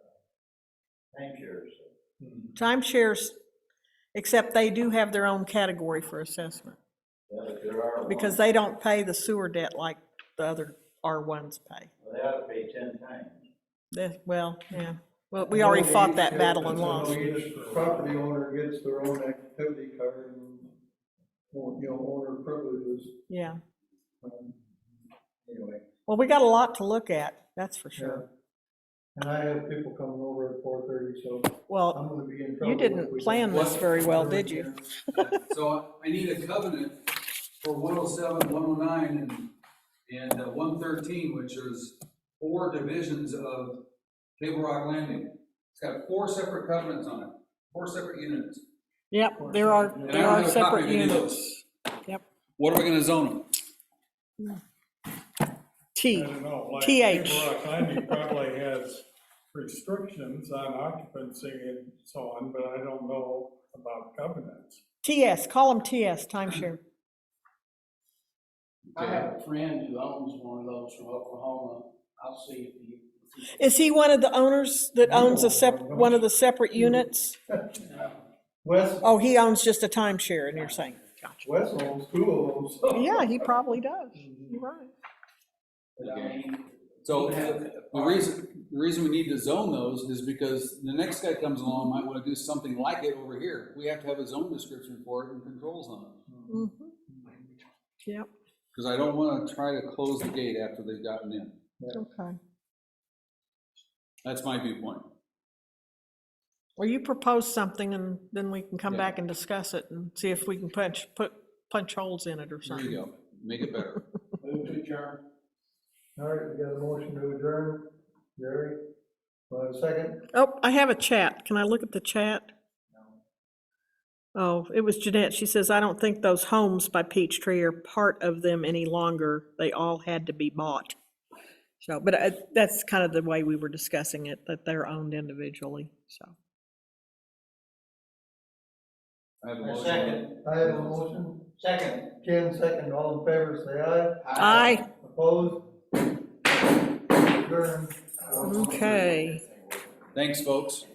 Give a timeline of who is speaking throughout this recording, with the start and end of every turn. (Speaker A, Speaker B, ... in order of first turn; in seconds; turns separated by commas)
Speaker A: 1.1-1.9, Speaker B: 2.6-3.4, Speaker B: 4.1-6.8, Speaker A: 7.3-8.4, Speaker B: 8.1-11.9, Speaker A: 12.0-13.4, Speaker B: 13.9-17.2, Speaker C: 15.4-20.7, Speaker D: 16.6-18.1, Speaker C: 21.5-23.1, Speaker B: 23.3-23.6, Speaker C: 24.2-24.6, Speaker C: 25.4-25.8, Speaker B: 26.1-28.2, Speaker C: 28.0-28.2, Speaker C: 29.2-34.9, Speaker B: 31.7-32.0, Speaker B: 32.6-35.3, Speaker E: 33.5-33.8, Speaker E: 35.1-37.0, Speaker E: 37.6-39.5, Speaker E: 40.1-43.8, Speaker E: 44.4-48.6, Speaker B: 49.1-52.2, Speaker D: 49.4-50.5, Speaker E: 50.1-51.5, Speaker E: 52.6-53.5, Speaker B: 56.0-58.2, Speaker D: 56.1-64.8, Speaker B: 65.0-66.8, Speaker F: 68.9-73.8, Speaker C: 69.0-69.2, Speaker B: 73.6-77.4, Speaker C: 75.0-77.8, Speaker F: 77.8-78.2, Speaker C: 78.6-79.1, Speaker B: 79.0-81.4, Speaker C: 81.4-83.4, Speaker B: 82.9-84.9, Speaker F: 86.0-88.3, Speaker A: 86.0-86.3, Speaker E: 87.0-96.2, Speaker B: 96.5-96.9, Speaker C: 97.1-97.4, Speaker E: 98.7-101.6, Speaker B: 101.9-102.4, Speaker E: 104.2-105.1, Speaker B: 106.8-113.0, Speaker E: 108.8-109.1, Speaker E: 112.6-114.0, Speaker F: 114.4-115.2, Speaker C: 116.2-118.8, Speaker C: 119.5-120.2, Speaker B: 120.3-122.5, Speaker B: 124.3-131.0, Speaker B: 131.8-136.3, Speaker E: 139.4-140.9, Speaker A: 139.6-140.3, Speaker C: 140.4-141.5, Speaker A: 141.6-142.1, Speaker C: 142.1-144.2, Speaker A: 144.2-144.8, Speaker B: 144.4-144.9, Speaker C: 144.9-145.7, Speaker C: 147.1-149.2, Speaker B: 148.4-149.4, Speaker E: 150.1-150.8